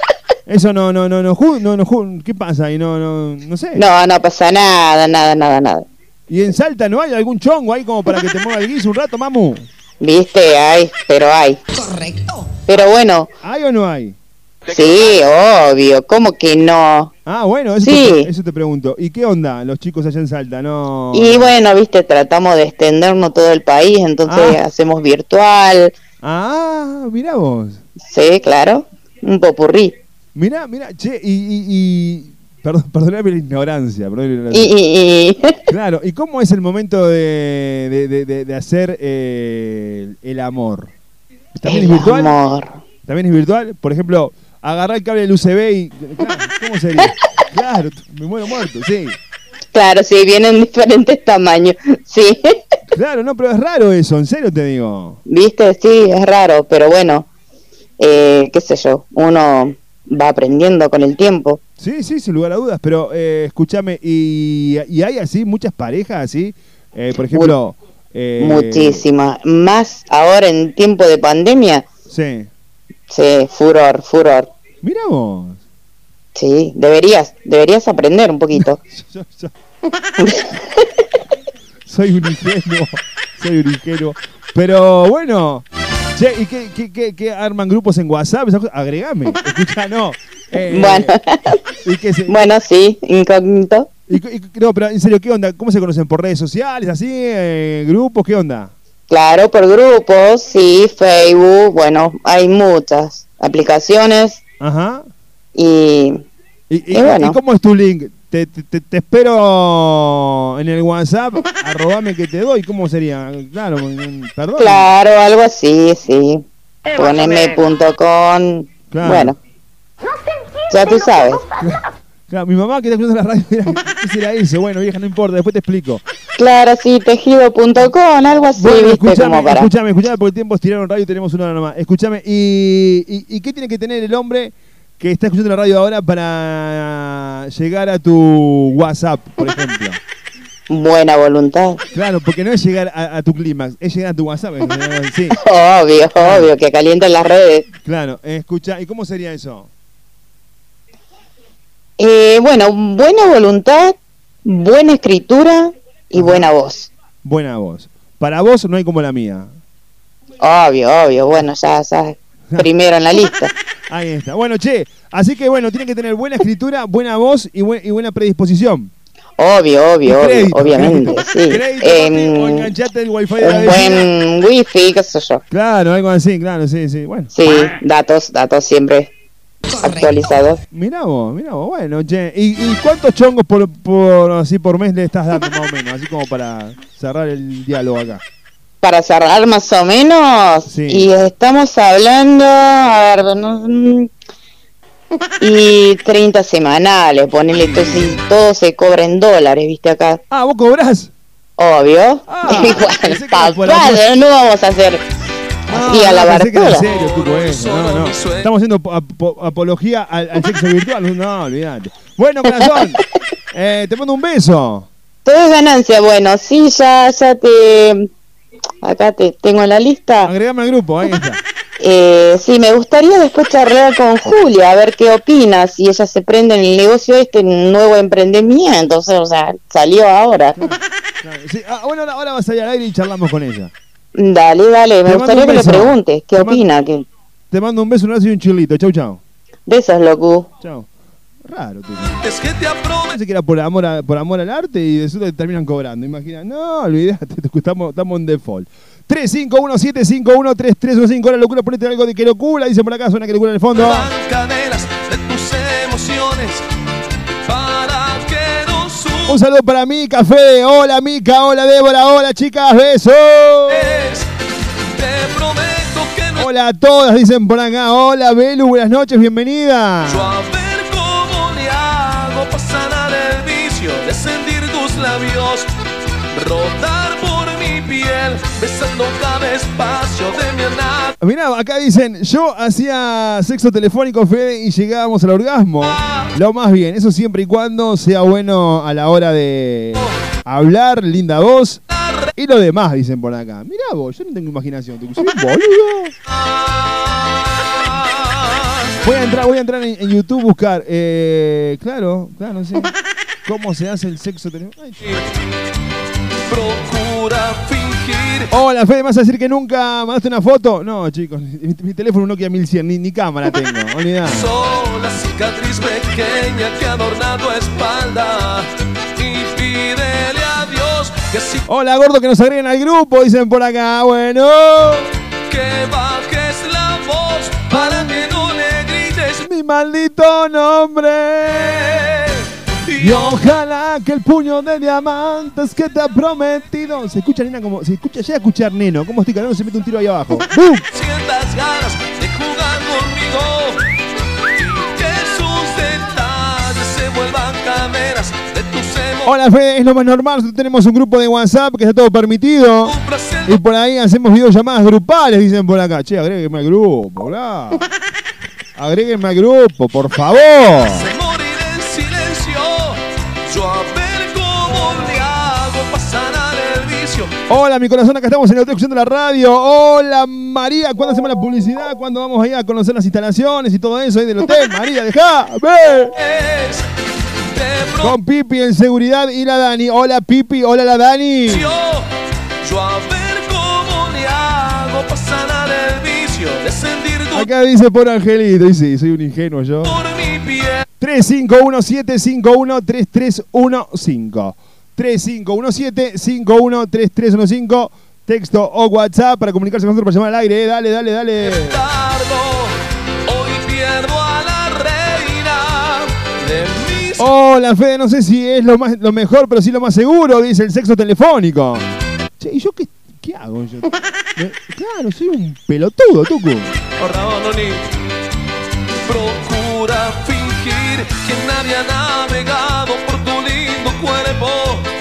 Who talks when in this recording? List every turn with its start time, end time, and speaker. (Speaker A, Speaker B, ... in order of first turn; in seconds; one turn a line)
Speaker A: 0.5-3.8
Speaker B: 3.8-5.9
Speaker A: 6.3-9.7
Speaker B: 10.0-11.6
Speaker B: 12.7-13.3
Speaker A: 13.4-14.2
Speaker B: 14.7-17.1
Speaker A: 17.2-21.5
Speaker B: 17.8-18.3
Speaker B: 21.1-25.9
Speaker A: 24.3-24.6
Speaker A: 26.2-27.8
Speaker B: 28.1-29.9
Speaker A: 30.4-34.7
Speaker B: 34.5-35.6
Speaker A: 35.7-40.9
Speaker A: 41.6-42.4
Speaker B: 41.6-42.8
Speaker A: 43.1-49.2
Speaker B: 49.7-52.5
Speaker A: 52.9-55.2
Speaker B: 55.3-57.3
Speaker B: 58.0-61.6
Speaker A: 61.8-69.0
Speaker B: 68.4-71.9
Speaker A: 72.1-72.5
Speaker B: 73.1-74.5
Speaker A: 74.8-75.6
Speaker B: 76.4-78.8
Speaker A: 78.5-79.5
Speaker B: 80.2-80.8
Speaker A: 81.9-91.1
Speaker B: 90.7-91.6
Speaker A: 91.8-92.5
Speaker B: 92.3-93.9
Speaker A: 94.1-98.7
Speaker B: 99.1-104.4
Speaker A: 104.6-105.1
Speaker B: 105.5-106.2
Speaker A: 106.7-114.9
Speaker B: 106.9-107.4
Speaker B: 114.6-119.4
Speaker A: 118.9-119.4
Speaker B: 120.7-121.4
Speaker A: 121.6-126.0
Speaker B: 126.4-129.7
Speaker A: 128.6-140.0
Speaker B: 140.7-141.8
Speaker A: 141.9-145.4
Speaker B: 145.4-147.7
Speaker A: 146.2-146.5
Speaker A: 147.8-149.7
Speaker B: 152.0-156.9
Speaker A: 156.2-156.5
Speaker A: 157.2-159.6
Speaker B: 160.4-163.5
Speaker A: 163.9-168.9
Speaker B: 169.4-172.7
Speaker A: 170.1-174.1
Speaker B: 173.4-175.4
Speaker A: 175.5-177.3
Speaker B: 177.3-179.1
Speaker B: 179.8-180.6
Speaker A: 180.7-188.2
Speaker B: 188.8-194.1
Speaker A: 190.7-191.1
Speaker B: 195.4-200.2
Speaker A: 200.3-201.1
Speaker B: 201.6-205.0
Speaker A: 202.3-204.0
Speaker A: 205.7-214.9
Speaker B: 205.7-206.8
Speaker C: 206.8-208.5
Speaker B: 215.2-218.1
Speaker B: 218.8-220.3
Speaker A: 220.2-221.4
Speaker B: 221.8-230.6
Speaker A: 230.6-233.7
Speaker B: 234.2-237.1
Speaker A: 235.1-236.6
Speaker A: 237.5-239.2
Speaker B: 239.7-240.5
Speaker A: 240.6-240.9
Speaker A: 241.4-242.2
Speaker C: 242.2-243.2
Speaker A: 243.1-254.1
Speaker C: 253.7-256.6
Speaker C: 257.4-259.4
Speaker A: 259.3-263.9
Speaker C: 263.7-264.3
Speaker C: 264.9-266.5
Speaker A: 266.4-270.4
Speaker C: 270.1-275.7
Speaker C: 276.3-281.1
Speaker A: 281.2-291.8
Speaker C: 285.9-286.3
Speaker C: 291.9-292.3
Speaker A: 292.4-296.1
Speaker C: 296.7-298.9
Speaker A: 299.0-302.9
Speaker A: 303.4-305.1
Speaker C: 306.5-308.5
Speaker A: 308.5-314.5
Speaker C: 314.3-321.6
Speaker A: 321.7-325.1
Speaker C: 325.5-329.4
Speaker A: 327.7-328.2
Speaker A: 329.4-332.0
Speaker C: 331.8-333.4
Speaker A: 333.0-340.8
Speaker C: 340.9-343.8
Speaker C: 344.7-349.3
Speaker A: 349.2-352.9
Speaker C: 352.9-353.6
Speaker A: 353.4-357.8
Speaker A: 358.8-361.1
Speaker C: 360.9-367.3
Speaker A: 367.5-376.1
Speaker C: 376.1-376.8
Speaker C: 377.5-378.2
Speaker A: 378.0-381.7
Speaker C: 381.5-382.1
Speaker C: 382.6-387.5
Speaker A: 387.3-389.9
Speaker C: 389.8-390.9
Speaker A: 391.0-401.8
Speaker C: 401.4-402.7
Speaker C: 403.2-407.2
Speaker A: 407.2-411.9
Speaker A: 412.4-416.7
Speaker C: 417.0-417.8
Speaker C: 419.1-424.9